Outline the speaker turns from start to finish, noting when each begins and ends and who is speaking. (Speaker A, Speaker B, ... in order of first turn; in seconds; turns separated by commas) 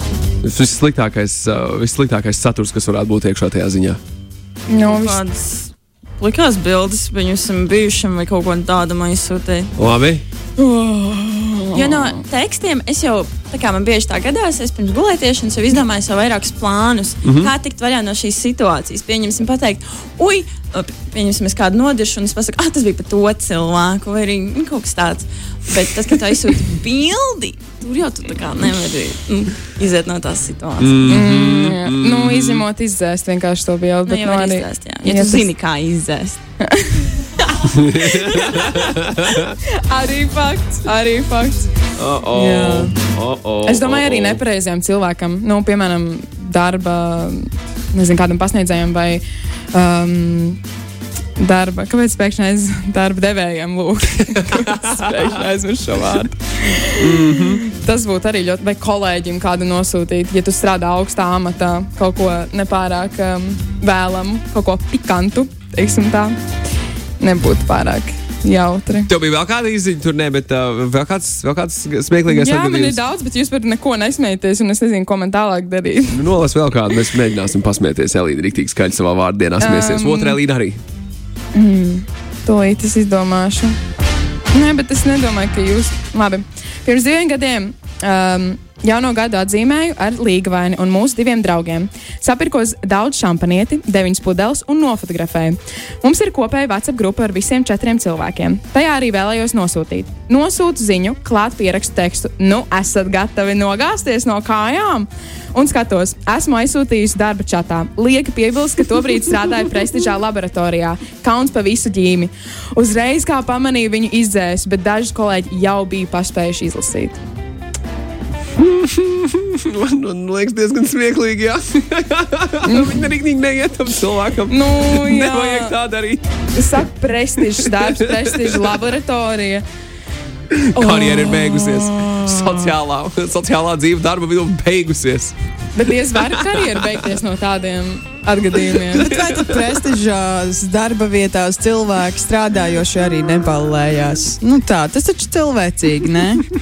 Speaker A: 0.4-4.0, Speaker B: 4.7-5.2, Speaker C: 4.8-9.7, Speaker A: 9.8-10.2, Speaker B: 10.6-12.2, Speaker C: 11.7-31.2, Speaker A: 17.2-17.5, Speaker A: 30.8-32.6, Speaker B: 31.1-35.5, Speaker C: 34.1-36.4, Speaker B: 36.6-38.9, Speaker A: 37.7-39.3, Speaker B: 39.7-41.7, Speaker A: 42.0-44.4, Speaker B: 42.3-43.0, Speaker B: 43.6-50.6, Speaker B: 51.4-66.4, Speaker A: 57.0-57.6, Speaker B: 67.2-69.1, Speaker A: 69.1-73.0, Speaker B: 72.3-76.3, Speaker A: 76.1-80.8, Speaker B: 79.6-80.4, Speaker B: 81.5-83.8, Speaker B: 84.5-117.2, Speaker A: 118.6-126.3, Speaker B: 122.7-123.1, Speaker B: 124.5-125.8, Speaker B: 126.5-129.7, Speaker A: 127.6-128.6, Speaker A: 130.5-135.3, Speaker B: 130.8-132.7, Speaker B: 135.8-139.1, Speaker A: 136.3-137.0, Speaker D: 138.9-146.4, Speaker A: 139.0-139.6